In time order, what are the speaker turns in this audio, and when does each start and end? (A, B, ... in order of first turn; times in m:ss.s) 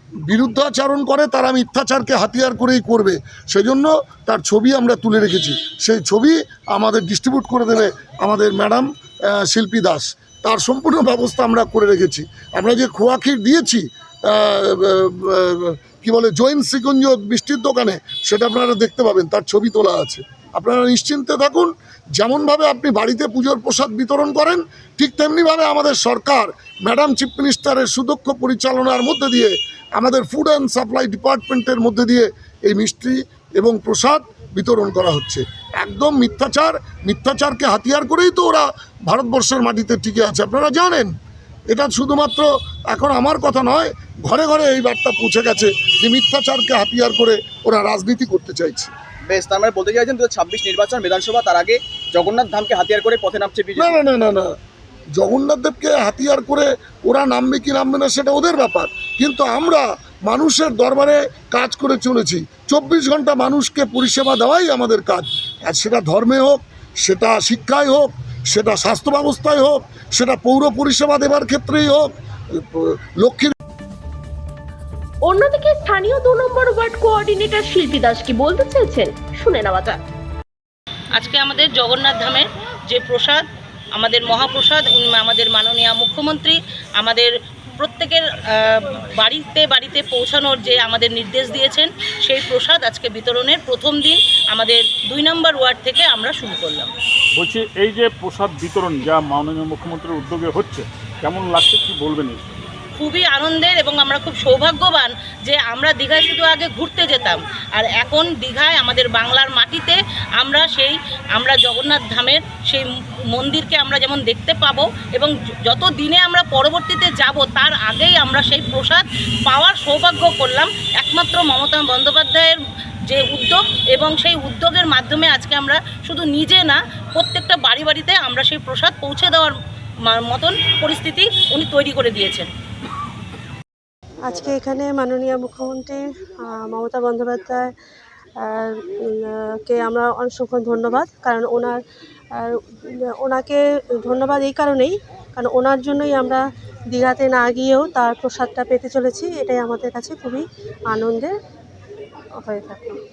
0:00.2-0:41.1 A
0:41.7-0:48.9 A
0:49.3-0:54.0 B
0:53.8-0:54.5 A
0:55.1-1:13.5 A
1:15.2-1:20.0 C
1:21.1-1:23.4 D
1:24.0-1:36.9 D
1:37.4-1:42.5 E
1:43.0-2:09.5 D
2:10.1-2:12.5 D
2:14.2-2:17.7 F
2:18.4-2:21.8 F
2:22.4-2:31.3 F
2:32.4-2:33.0 F